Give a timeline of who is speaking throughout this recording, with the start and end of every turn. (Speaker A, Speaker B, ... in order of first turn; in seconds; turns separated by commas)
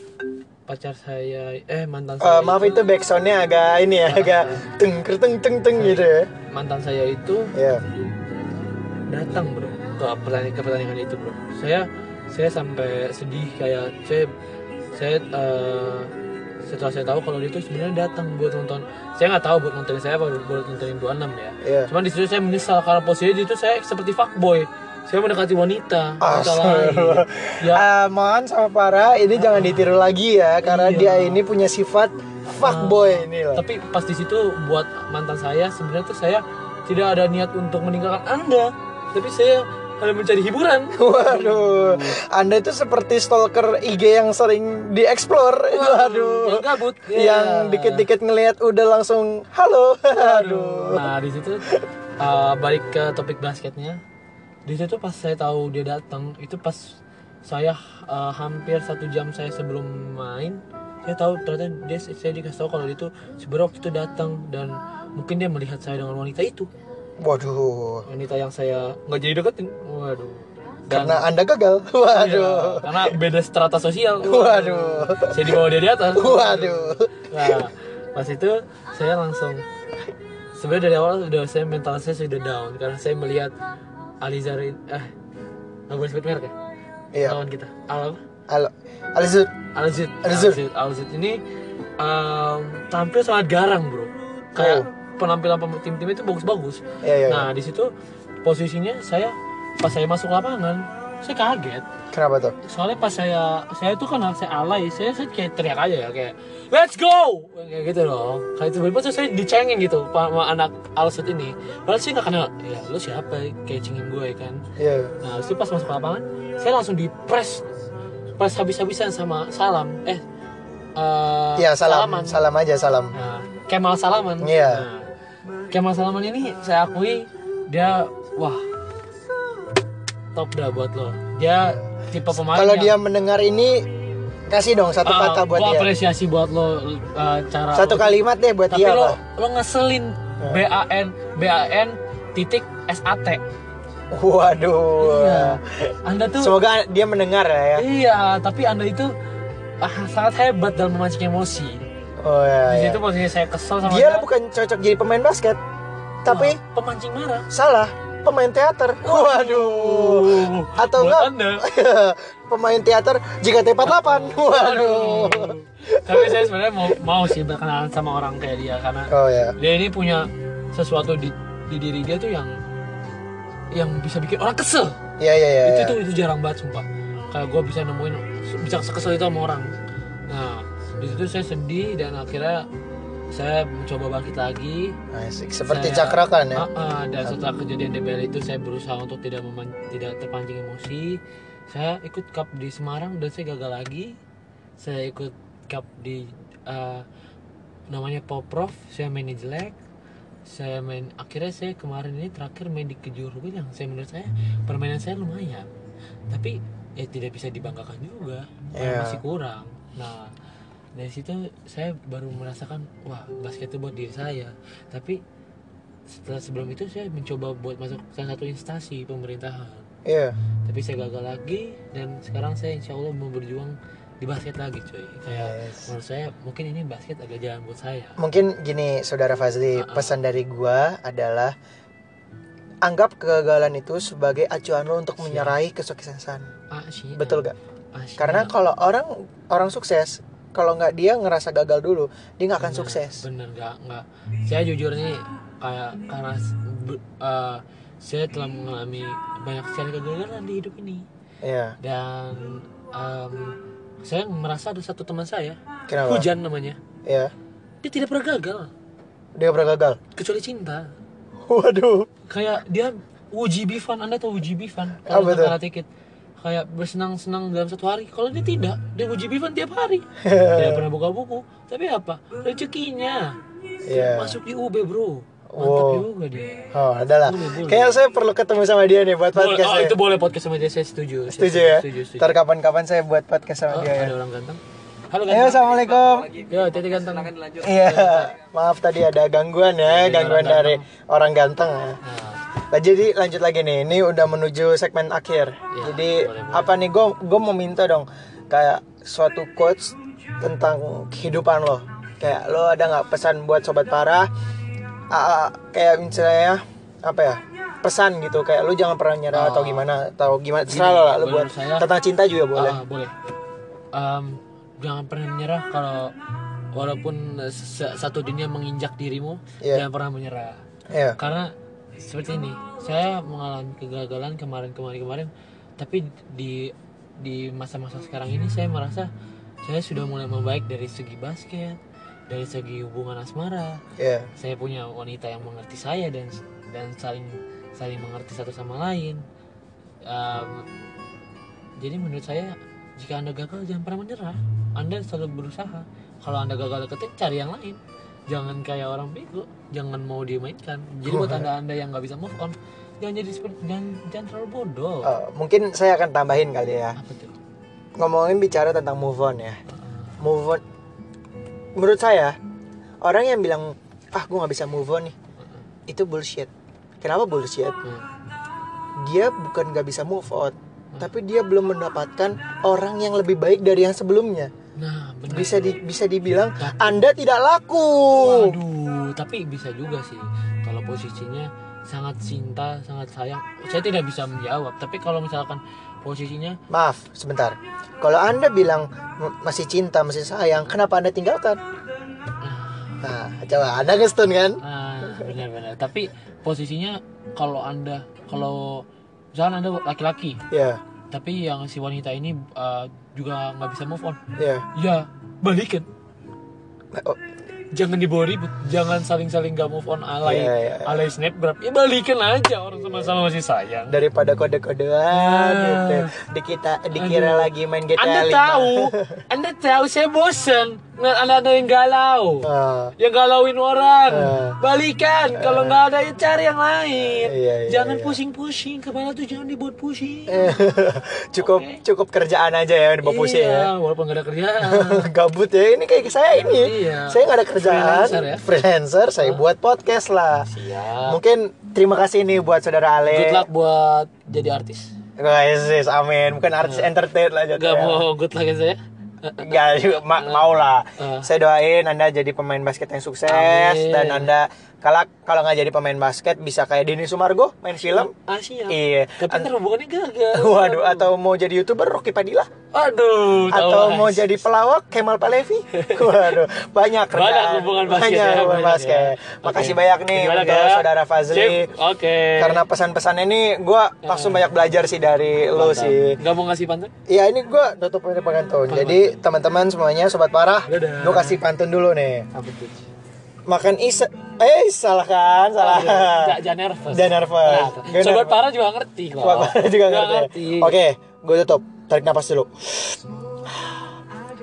Speaker A: 0.7-2.9, Speaker B: 2.2-6.3, Speaker A: 4.1-4.6, Speaker A: 5.8-7.5, Speaker B: 7.5-7.8, Speaker A: 9.1-14.3, Speaker A: 15.0-16.1, Speaker A: 16.6-27.9, Speaker B: 21.6-21.9, Speaker B: 26.2-33.6, Speaker A: 29.4-29.8, Speaker A: 30.6-31.4, Speaker A: 32.5-42.2, Speaker B: 40.9-51.1, Speaker A: 45.7-48.1, Speaker A: 50.1-54.0, Speaker A: 54.6-66.7, Speaker B: 67.2-68.0, Speaker A: 68.1-71.3, Speaker B: 70.9-73.1, Speaker A: 72.1-79.6, Speaker B: 74.2-75.6, Speaker B: 76.1-77.6, Speaker A: 80.6-83.5, Speaker A: 84.2-85.1, Speaker A: 85.9-86.5, Speaker B: 87.1-87.4, Speaker A: 87.2-88.2, Speaker B: 88.5-89.5, Speaker A: 89.7-91.4, Speaker B: 90.2-90.6, Speaker A: 92.0-97.9, Speaker B: 94.6-94.9, Speaker B: 97.0-97.5, Speaker A: 98.4-101.9, Speaker B: 102.1-102.5, Speaker A: 102.6-114.6, Speaker B: 114.8-115.1, Speaker A: 115.2-117.6, Speaker A: 118.4-120.2, Speaker A: 121.0-122.5, Speaker B: 121.6-123.1, Speaker A: 123.1-125.1, Speaker B: 124.4-124.9, Speaker A: 125.7-128.7, Speaker A: 130.3-132.9, Speaker B: 131.6-133.9, Speaker B: 134.5-135.9, Speaker A: 135.0-143.4, Speaker B: 137.7-139.2, Speaker B: 144.1-147.8, Speaker A: 145.0-146.6, Speaker A: 147.8-149.1, Speaker A: 149.8-151.8, Speaker B: 152.2-153.0, Speaker A: 152.7-154.3, Speaker B: 153.8-155.6, Speaker B: 156.2-156.6, Speaker A: 156.3-157.5, Speaker B: 157.5-166.5, Speaker A: 159.0-161.7, Speaker A: 163.8-172.6, Speaker B: 169.1-169.6, Speaker A: 173.7-175.0, Speaker B: 175.2-176.0, Speaker A: 175.6-179.7, Speaker A: 180.3-182.7, Speaker A: 183.3-185.0, Speaker B: 185.1-186.7, Speaker A: 185.7-194.2, Speaker A: 194.8-197.1, Speaker A: 197.9-199.8, Speaker A: 200.5-205.7, Speaker A: 206.3-210.3, Speaker B: 208.8-209.2, Speaker A: 210.9-215.2, Speaker A: 216.1-219.9, Speaker B: 220.1-220.4, Speaker A: 220.7-228.2, Speaker B: 225.3-225.9, Speaker B: 228.2-231.6, Speaker A: 229.8-230.2, Speaker B: 232.8-236.5, Speaker A: 235.2-235.6, Speaker A: 236.7-238.6, Speaker B: 237.2-237.6, Speaker B: 238.2-243.2, Speaker A: 242.6-251.1, Speaker B: 251.4-251.8, Speaker A: 251.8-256.8, Speaker B: 255.9-256.3, Speaker B: 257.1-257.3, Speaker A: 257.8-258.7, Speaker B: 259.4-260.0, Speaker A: 260.1-260.9, Speaker B: 261.4-262.1, Speaker A: 262.3-265.9, Speaker B: 265.0-265.6, Speaker A: 266.4-273.4, Speaker B: 270.2-270.9, Speaker B: 273.9-274.4, Speaker A: 273.9-278.0, Speaker B: 275.5-276.1, Speaker B: 276.7-280.0, Speaker A: 279.3-282.4, Speaker B: 281.3-284.1, Speaker A: 283.7-285.7, Speaker B: 285.3-286.4, Speaker A: 286.3-288.3, Speaker B: 287.6-292.0, Speaker A: 289.9-290.9, Speaker A: 292.0-292.4, Speaker B: 292.7-304.3, Speaker A: 295.7-296.8, Speaker B: 305.1-312.8, Speaker A: 309.3-309.9, Speaker A: 310.7-311.9, Speaker A: 312.6-313.1, Speaker A: 313.9-316.1, Speaker A: 316.8-320.6, Speaker B: 320.9-321.2, Speaker A: 321.2-329.1, Speaker A: 329.6-333.8, Speaker B: 334.0-334.3, Speaker A: 334.4-339.2, Speaker A: 340.1-340.7, Speaker A: 341.8-355.1, Speaker B: 351.1-351.5, Speaker B: 355.0-357.0, Speaker A: 357.0-357.4, Speaker B: 358.0-359.6, Speaker A: 359.8-360.1, Speaker B: 360.2-360.6, Speaker B: 361.8-362.4, Speaker B: 363.0-365.1, Speaker B: 365.9-366.5, Speaker B: 367.0-367.8, Speaker B: 369.0-374.5, Speaker A: 374.8-375.8, Speaker B: 375.3-378.6, Speaker A: 376.6-376.9, Speaker A: 378.1-386.6, Speaker B: 386.7-391.6, Speaker A: 392.4-393.0, Speaker B: 393.0-395.3, Speaker A: 394.6-400.4, Speaker B: 400.5-400.8, Speaker A: 401.1-404.2, Speaker B: 404.4-404.6, Speaker A: 404.7-405.9, Speaker B: 406.9-407.2, Speaker A: 407.7-414.0, Speaker B: 410.2-411.1, Speaker B: 412.8-413.2, Speaker B: 413.9-419.2, Speaker A: 415.1-416.1, Speaker A: 416.9-430.6, Speaker B: 422.4-422.9, Speaker B: 424.1-424.6, Speaker B: 425.3-425.8, Speaker B: 427.0-428.2, Speaker B: 430.3-433.7, Speaker A: 431.4-431.8, Speaker A: 433.0-435.1, Speaker B: 434.6-440.5, Speaker A: 436.6-438.5, Speaker A: 440.5-441.2, Speaker B: 441.1-443.5, Speaker A: 443.1-444.9, Speaker B: 445.2-448.0, Speaker A: 446.6-446.9, Speaker A: 447.6-450.4, Speaker B: 449.4-458.1, Speaker A: 451.0-451.3, Speaker A: 453.3-454.3, Speaker A: 457.9-461.1, Speaker B: 458.7-459.5, Speaker B: 460.3-462.5, Speaker A: 462.7-464.4, Speaker B: 463.5-471.7, Speaker A: 465.7-466.3, Speaker A: 467.1-472.6, Speaker B: 472.4-476.2, Speaker A: 474.0-474.5, Speaker A: 475.5-476.9, Speaker B: 477.1-482.3, Speaker A: 478.7-479.2, Speaker A: 480.7-481.4, Speaker A: 482.3-482.9, Speaker B: 483.5-488.4, Speaker A: 485.6-490.8, Speaker B: 489.2-493.7